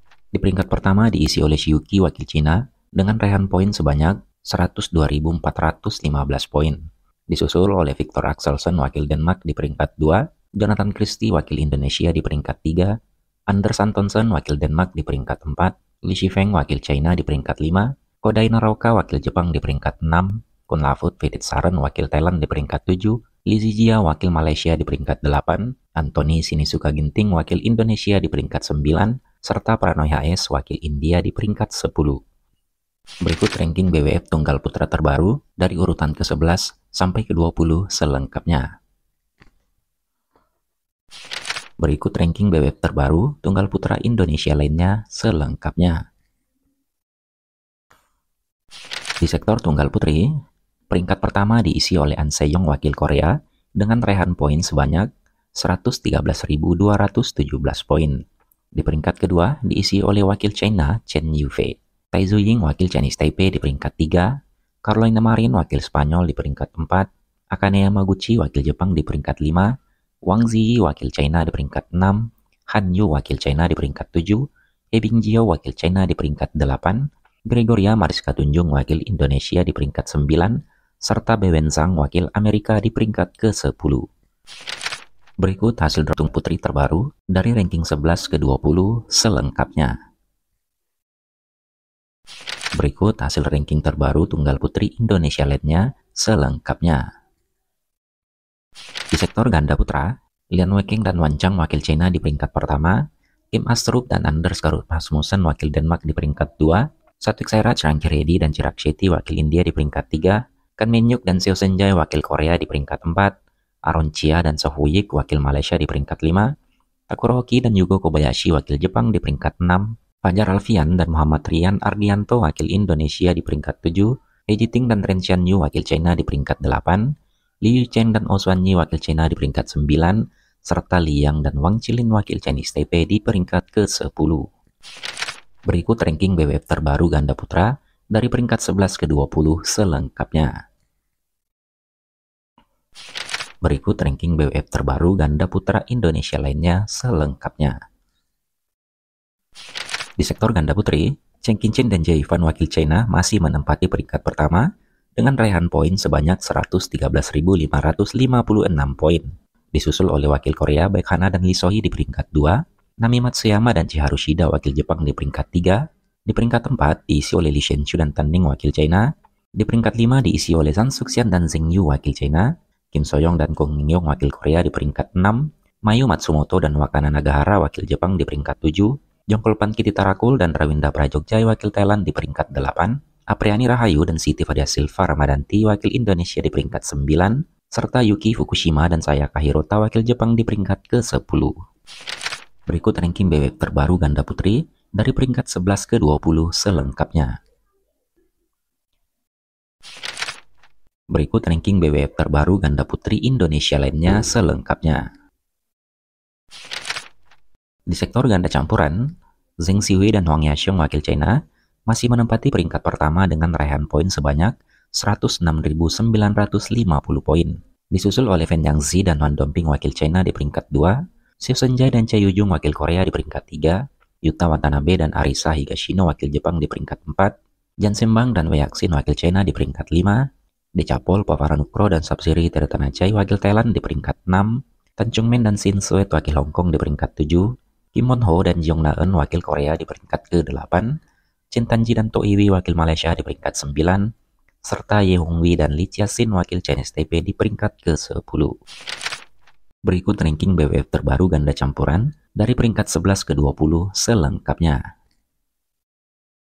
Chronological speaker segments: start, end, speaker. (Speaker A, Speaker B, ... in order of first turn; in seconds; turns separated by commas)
Speaker A: 0.3-12.9, Speaker A: 13.5-32.2, Speaker A: 33.2-38.7, Speaker A: 41.8-46.0, Speaker A: 49.2-50.3, Speaker A: 50.9-58.2, Speaker A: 58.8-64.3, Speaker A: 64.8-69.7, Speaker A: 70.2-84.0, Speaker A: 85.4-89.9, Speaker A: 92.8-97.0, Speaker A: 99.1-103.0, Speaker A: 103.5-113.3, Speaker A: 113.9-116.5, Speaker A: 117.1-127.0, Speaker A: 127.6-134.4, Speaker A: 135.7-140.5, Speaker A: 143.6-147.8, Speaker A: 150.2-154.6, Speaker A: 155.2-169.1, Speaker A: 169.6-191.5, Speaker A: 192.7-197.3, Speaker A: 201.1-205.0, Speaker A: 207.9-209.0, Speaker A: 209.6-211.3, Speaker A: 211.9-230.2, Speaker A: 230.8-240.9, Speaker A: 241.5-244.1, Speaker A: 244.7-248.5, Speaker A: 249.9-254.8